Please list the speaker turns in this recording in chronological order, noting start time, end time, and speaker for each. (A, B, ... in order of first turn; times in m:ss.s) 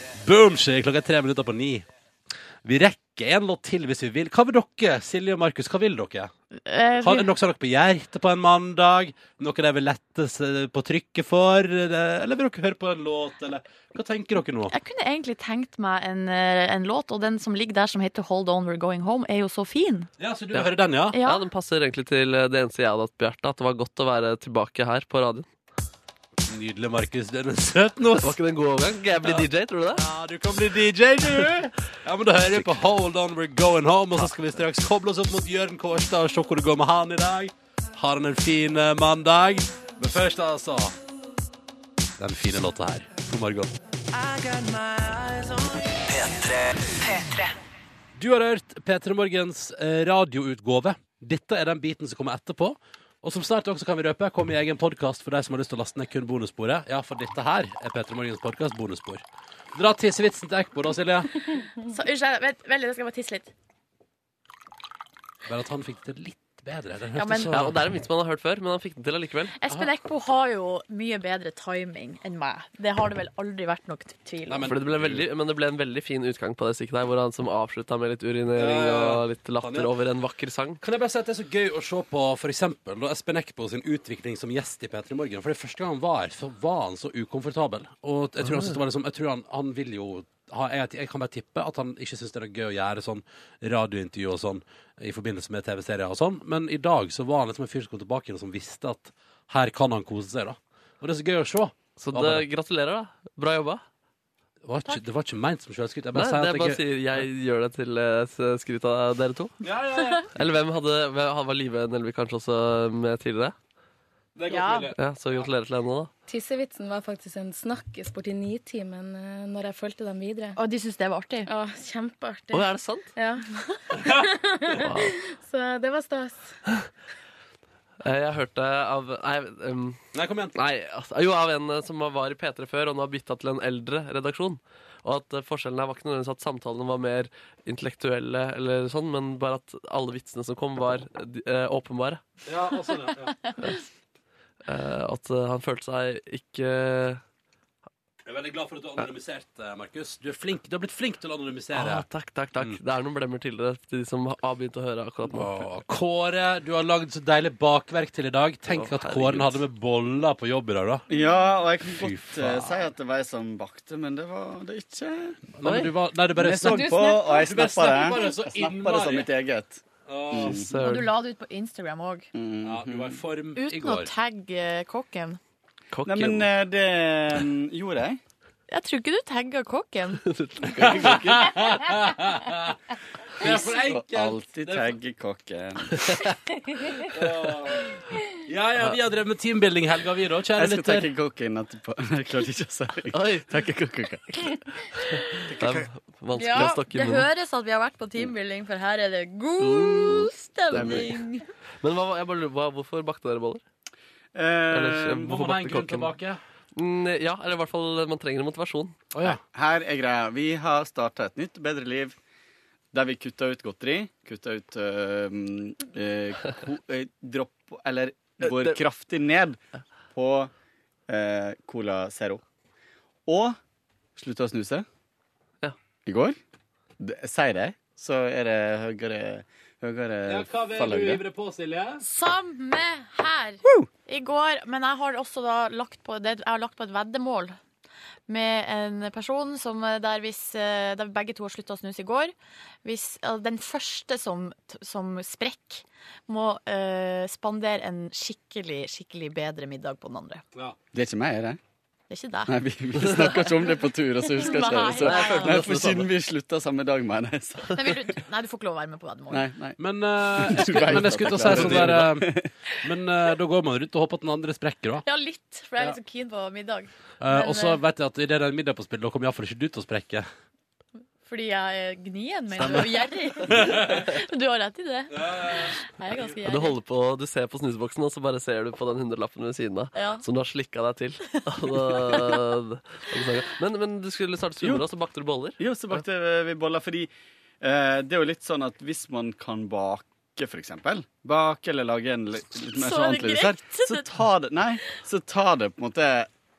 0:00.2-0:01.8 A
0:02.6-0:06.3 A
0:06.6-0:07.3 B
0:07.0-0:14.7 A
0:14.7-0:20.1 B
0:20.2-0:21.2 A
0:21.1-0:21.4 B
0:21.2-0:25.5 C
0:26.4-0:28.4 A
0:28.2-0:30.0 C
0:29.2-0:41.0 A
0:42.2-0:43.7 A
0:44.8-0:45.2 D
0:45.8-0:47.5 D
0:48.2-1:01.3 A
1:01.8-1:03.5 B
1:05.4-1:07.8 A
1:07.2-1:07.5 B
1:07.5-1:09.6 C
1:09.6-1:14.7 B
1:14.5-1:15.3 A
1:14.6-1:20.8 C
1:18.6-1:19.9 A
1:20.8-1:42.5 A
1:42.0-1:43.8 C
1:44.6-1:47.3 A
1:46.2-1:49.6 C
1:49.6-1:50.4 A
1:50.4-1:53.6 C
1:54.4-1:55.5 A
1:54.5-1:54.9 B
1:55.0-1:56.1 C
1:56.3-2:00.6 E
2:00.6-2:01.5 B
2:01.5-2:03.5 E
2:02.5-2:03.1 C
2:04.0-2:06.6 E
2:04.8-2:05.2 C
2:08.0-2:10.0 C
2:10.1-2:10.6 A
2:10.6-2:22.2 C
2:22.4-2:23.4 A
2:24.7-2:27.2 C
2:28.2-2:32.0 A
2:31.7-2:35.7 C
2:35.3-2:41.1 A
2:38.7-2:39.6 C
2:41.1-2:45.4 F
2:41.9-2:42.9 A
2:45.6-2:49.3 A
2:45.6-2:45.9 C
2:46.4-2:50.7 F
2:46.7-2:47.4 E
2:50.1-2:50.6 A
2:50.4-2:51.1 C
2:50.7-2:52.3 B
2:52.3-2:53.2 F
2:52.6-2:54.1 A
2:53.6-2:55.4 B
2:55.9-2:56.5 C
2:56.1-2:58.2 F
2:58.7-3:00.2 B
3:00.2-3:01.7 C
3:00.6-3:02.8 A
3:03.4-3:05.0 A
3:03.5-3:06.2 F
3:07.1-3:08.0 A
3:08.5-3:11.1 A
3:10.6-3:14.6 F
3:13.1-3:13.5 C
3:15.2-3:17.3 C
3:15.5-3:15.9 F
3:16.4-3:21.4 B
3:19.6-3:21.1 C
3:20.7-3:21.1 F
3:21.8-3:23.6 C
3:24.4-3:25.3 F
3:24.7-3:26.1 C
3:25.2-3:26.4 A
3:26.8-3:29.0 C
3:29.1-3:29.4 A
3:29.5-3:32.2 F
3:32.9-3:39.6 F
3:38.4-3:38.8 C
3:40.1-3:40.5 F
3:41.1-3:42.4 F
3:43.3-3:43.6 F
3:44.2-3:44.9 F
3:46.1-3:46.4 F
3:47.0-3:51.2 F
3:50.3-3:52.0 A
3:52.0-3:57.6 B
3:58.3-4:02.3 B
4:02.8-4:10.4 B
4:10.9-4:11.6 F
4:12.1-4:12.5 B
4:12.5-4:17.8 F
4:14.4-4:15.6 B
4:14.7-4:16.1 C
4:17.7-4:19.5 B
4:19.3-4:19.8 F
4:19.8-4:25.0 A
4:20.4-4:22.5 F
4:21.4-4:22.0 C
4:25.1-4:27.8 B
4:27.2-4:30.3 A
4:31.2-4:36.8 B
4:33.5-4:34.1 A
4:35.1-4:35.8 A
4:36.4-4:45.6 C
4:40.0-4:40.2 B
4:45.6-4:56.3 F
4:52.8-4:54.1 B